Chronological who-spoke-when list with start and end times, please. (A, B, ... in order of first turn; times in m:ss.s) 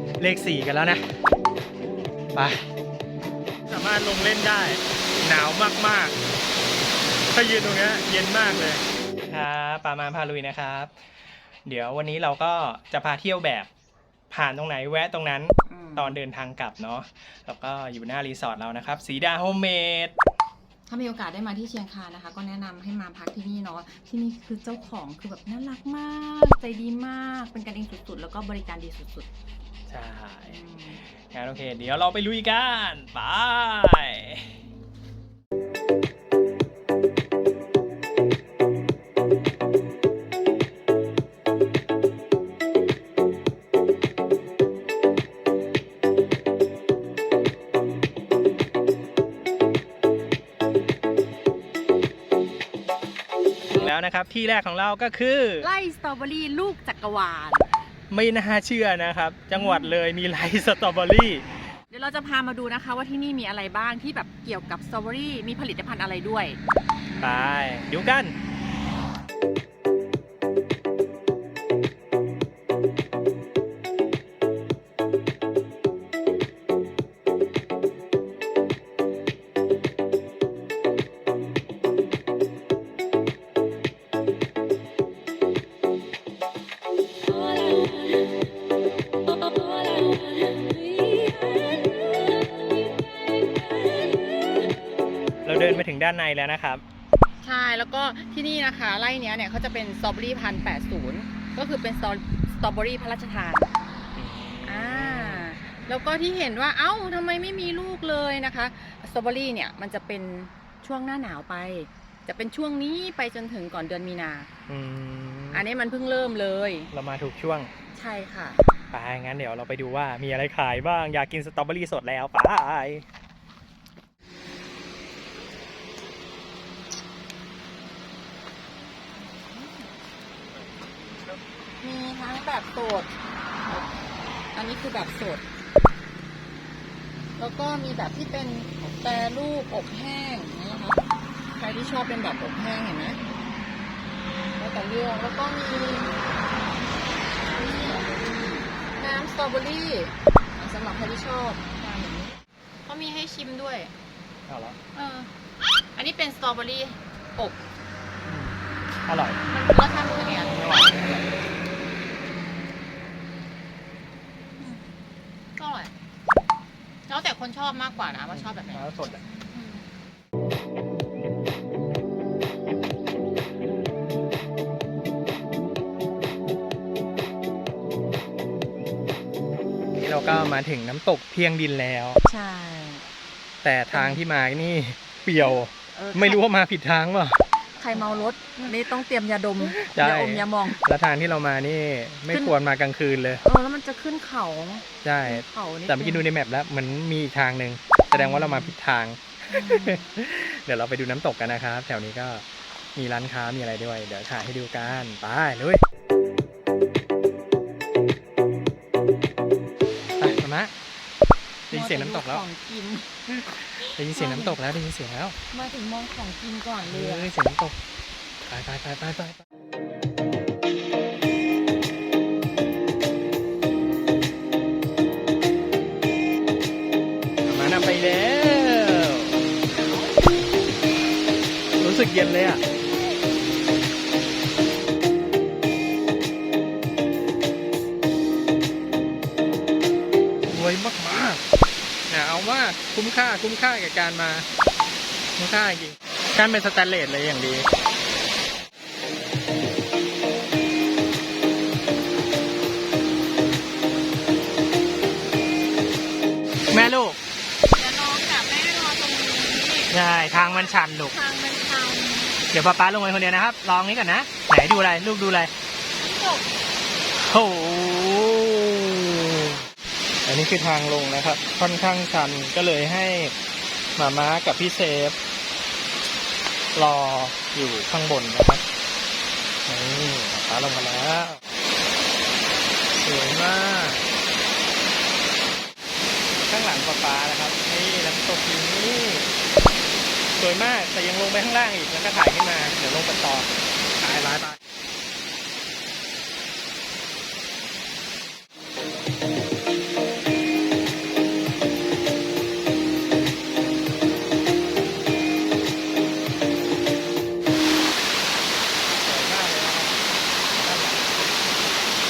0:00.2-0:01.0 A
0:02.3-0:02.7 A
0:03.7-0:06.2 A
0:07.3-0:10.9 A
0:11.6-0:13.7 A
0:14.3-0:20.1 A
0:15.6-0:16.2 B
0:20.9-0:29.3 B
0:29.9-0:30.6 A
0:30.5-0:31.0 B
0:31.3-0:34.5 A
0:53.7-0:55.7 A
0:55.6-0:57.7 B
0:58.1-1:01.4 A
0:59.5-0:59.9 B
1:01.9-1:06.6 B
1:07.2-1:08.3 A
1:27.5-1:28.3 B
1:29.2-1:34.8 B
1:35.4-1:36.8 A
1:37.4-1:43.7 B
1:44.2-1:45.5 A
1:44.6-1:54.5 B
1:54.7-1:55.6 A
1:55.5-1:56.9 B
1:56.9-1:57.7 A
1:57.9-1:58.6 B
1:58.9-2:03.0 A
2:09.1-2:10.0 B
2:11.8-2:13.1 B
2:14.5-2:15.4 B
2:17.4-2:23.2 B
2:24.6-2:26.2 B
2:27.4-2:32.3 B
2:32.8-2:33.9 B
2:34.5-2:34.8 A
2:34.9-2:35.3 B
2:36.0-2:37.6 B
2:38.2-2:39.4 A
2:39.5-2:40.7 B
2:40.4-2:41.3 A
2:44.6-2:44.8 B
2:45.6-2:45.9 B
2:47.1-2:49.8 B
2:48.3-2:49.2 A
2:59.9-3:02.2 A
3:02.2-3:03.0 B
3:03.6-3:07.4 A
3:03.9-3:04.2 B
3:05.9-3:06.4 B
3:07.8-3:10.8 B
3:09.6-3:13.4 A
3:13.4-3:16.2 B
3:15.0-3:22.4 A
3:18.1-3:18.7 B
3:19.5-3:20.1 B
3:23.0-3:25.8 A
3:30.2-3:30.7 A
3:31.7-3:33.1 B
3:31.7-3:32.4 A
3:33.3-3:35.4 A
3:34.0-3:34.6 B
3:35.5-3:37.3 B
3:36.8-3:37.8 A
3:38.4-3:39.4 A
3:47.4-3:49.4 A
3:49.7-3:50.4 B
3:51.8-3:52.6 A
4:00.5-4:01.4 A
4:02.1-4:04.4 A
4:05.4-4:07.7 A
4:16.7-4:17.2 A
4:17.7-4:22.4 B
4:19.9-4:21.1 A
4:22.5-4:25.5 A
4:26.0-4:26.5 B
4:27.2-4:29.6 A
4:30.2-4:33.3 A
4:34.0-4:35.2 A
4:36.7-4:38.6 A
4:39.7-4:41.4 A
4:43.0-4:44.0 A
4:46.4-4:49.3 A
4:50.4-4:54.6 A
5:09.0-5:10.0 A
5:10.6-5:11.3 A